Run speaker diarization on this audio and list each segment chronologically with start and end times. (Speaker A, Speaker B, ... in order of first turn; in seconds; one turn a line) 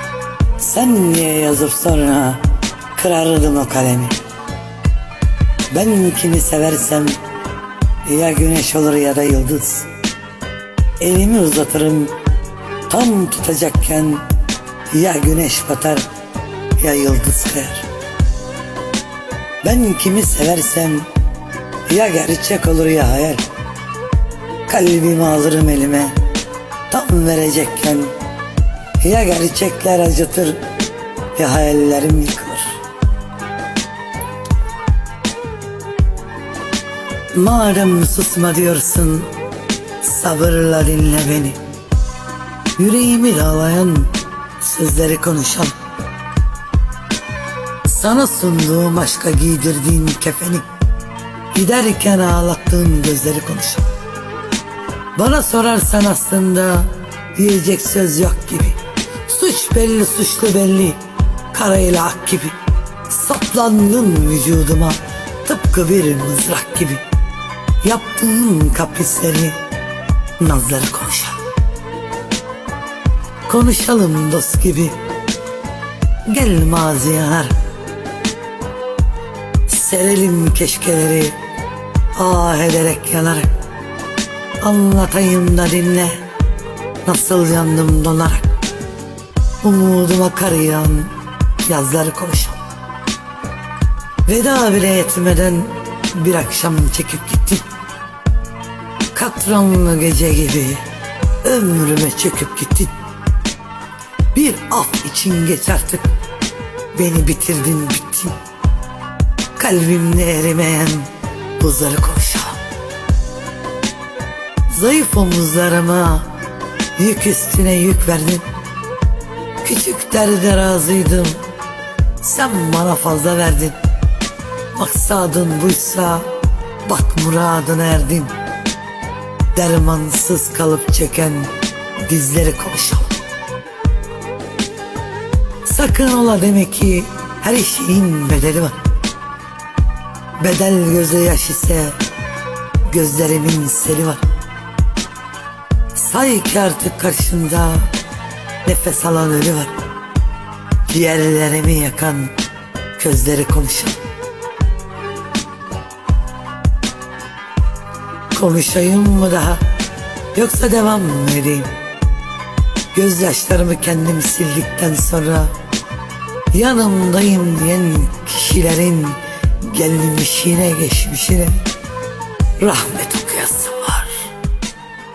Speaker A: 0.6-4.2
Speaker A: 5.7-7.2
Speaker A: 8.0-9.9
Speaker A: 11.0-12.2
Speaker A: 12.9-14.2
Speaker A: 14.9-16.1
Speaker A: 16.8-17.9
Speaker A: 19.6-21.1
Speaker A: 21.9-23.4
Speaker A: 24.7-26.2
Speaker A: 26.9-28.1
Speaker A: 29.0-30.7
Speaker A: 31.3-32.8
Speaker A: 37.3-39.3
Speaker A: 40.0-41.6
Speaker A: 42.8-45.7
Speaker A: 47.8-50.6
Speaker A: 51.5-53.9
Speaker A: 55.1-62.6
Speaker A: 63.1-67.0
Speaker A: 67.8-69.6
Speaker A: 70.4-71.4
Speaker A: 73.5-75.0
Speaker A: 76.2-77.5
Speaker A: 79.7-81.4
Speaker A: 82.1-83.5
Speaker A: 84.6-86.2
Speaker A: 87.0-88.5
Speaker A: 89.6-92.6
Speaker A: 94.2-97.7
Speaker A: 99.1-100.8
Speaker A: 101.4-102.9
Speaker A: 104.3-106.1
Speaker A: 106.9-108.3
Speaker A: 109.5-112.6
Speaker A: 114.7-116.4
Speaker A: 117.0-118.5
Speaker A: 119.6-121.4
Speaker A: 122.2-123.8
Speaker A: 124.7-126.3
Speaker A: 126.8-128.3
Speaker A: 129.5-133.2
Speaker A: 135.6-138.8
Speaker A: 140.4-142.0
Speaker A: 142.8-144.2
Speaker A: 145.9-147.9
Speaker A: 148.6-149.8
Speaker A: 150.8-152.3
Speaker A: 153.0-154.0
Speaker A: 158.3-159.6
Speaker A: 160.3-161.7
Speaker A: 162.9-165.5
Speaker A: 166.5-171.6
Speaker A: 172.6-174.3